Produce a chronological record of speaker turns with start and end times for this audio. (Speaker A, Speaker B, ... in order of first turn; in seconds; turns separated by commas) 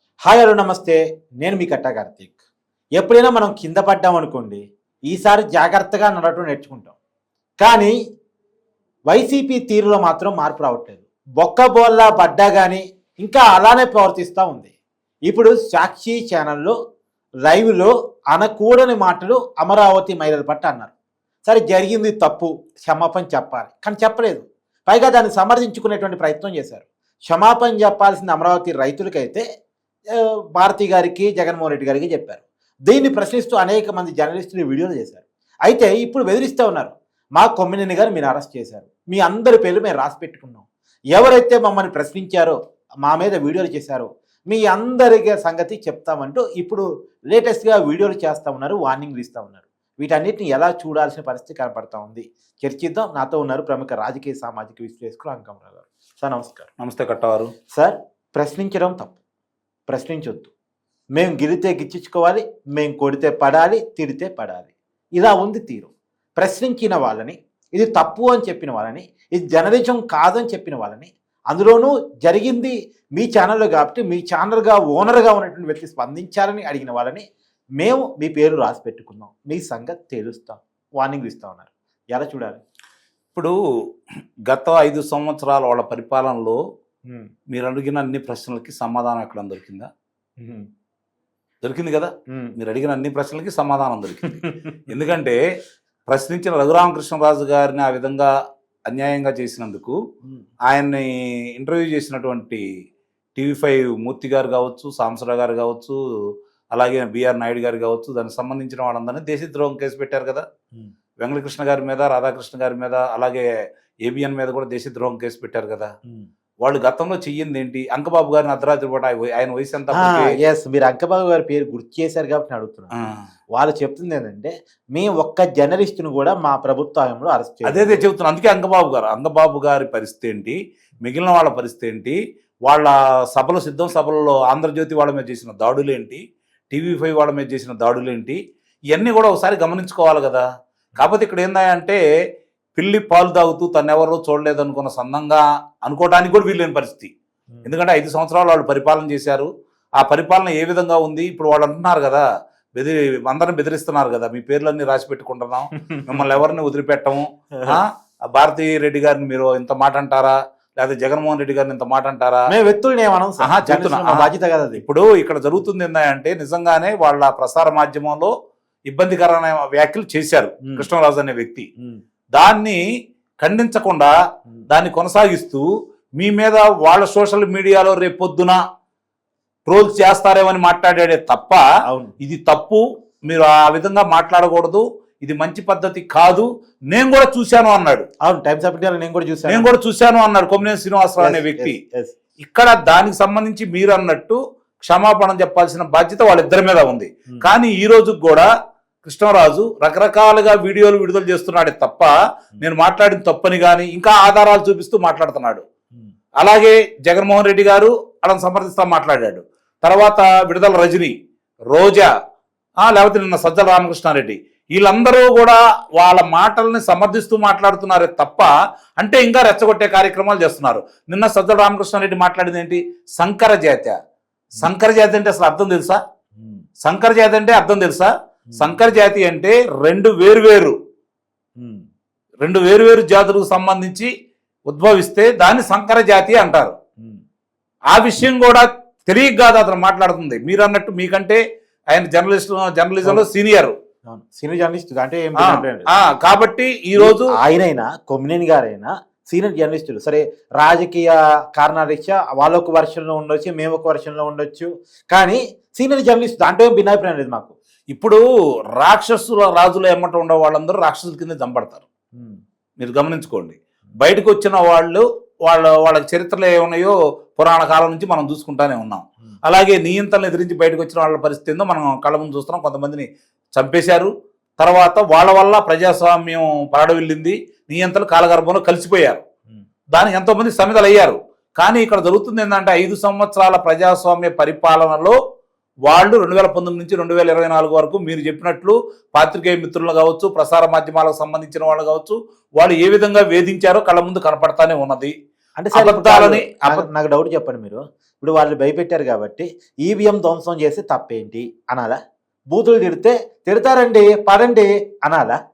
Speaker A: 0.3-2.4, Speaker A: 3.0-7.0, Speaker A: 7.6-7.9, Speaker A: 9.1-14.7, Speaker A: 15.3-16.8, Speaker A: 17.5-20.9, Speaker A: 21.4-29.4, Speaker A: 30.2-56.7, Speaker B: 56.8-57.5, Speaker A: 57.8-59.1, Speaker A: 59.9-60.5, Speaker A: 61.2-77.3, Speaker A: 77.8-82.6, Speaker B: 84.5-86.6, Speaker B: 87.5-89.9, Speaker A: 90.4-90.7, Speaker B: 91.6-94.3, Speaker A: 94.3-94.8, Speaker B: 94.9-95.4, Speaker B: 96.1-98.3, Speaker B: 98.9-100.0, Speaker B: 100.7-102.6, Speaker B: 103.4-106.0, Speaker B: 106.7-110.5, Speaker B: 111.2-113.5, Speaker B: 114.0-115.9, Speaker B: 116.6-120.3, Speaker A: 119.9-123.0, Speaker A: 123.5-128.0, Speaker B: 127.7-138.4, Speaker B: 138.9-140.4, Speaker B: 141.0-142.0, Speaker B: 142.8-147.1, Speaker B: 147.7-149.5, Speaker B: 150.0-162.5, Speaker A: 162.5-164.8, Speaker B: 163.4-168.3, Speaker B: 168.9-171.7, Speaker B: 172.3-172.8, Speaker B: 173.4-174.1, Speaker B: 174.7-175.7, Speaker B: 176.2-178.6, Speaker B: 179.7-181.6, Speaker A: 181.9-182.2, Speaker B: 182.2-188.1, Speaker A: 188.2-189.7, Speaker B: 189.5-191.8, Speaker A: 191.2-192.2, Speaker B: 192.4-198.5, Speaker B: 199.0-205.6, Speaker B: 206.4-211.1, Speaker B: 211.7-212.1, Speaker B: 212.8-224.0, Speaker B: 224.6-226.0, Speaker A: 226.4-226.6, Speaker B: 226.8-230.8, Speaker A: 228.5-228.9, Speaker A: 231.6-231.8, Speaker B: 232.4-234.1, Speaker B: 234.7-236.8, Speaker B: 237.9-241.4, Speaker B: 241.9-243.8, Speaker A: 244.1-245.9, Speaker B: 245.4-247.3, Speaker A: 247.0-257.5, Speaker B: 257.9-258.2, Speaker B: 258.8-261.9, Speaker B: 262.8-279.2, Speaker B: 279.9-285.2, Speaker B: 285.9-295.1, Speaker A: 295.6-302.0, Speaker B: 295.8-296.9, Speaker A: 302.5-305.4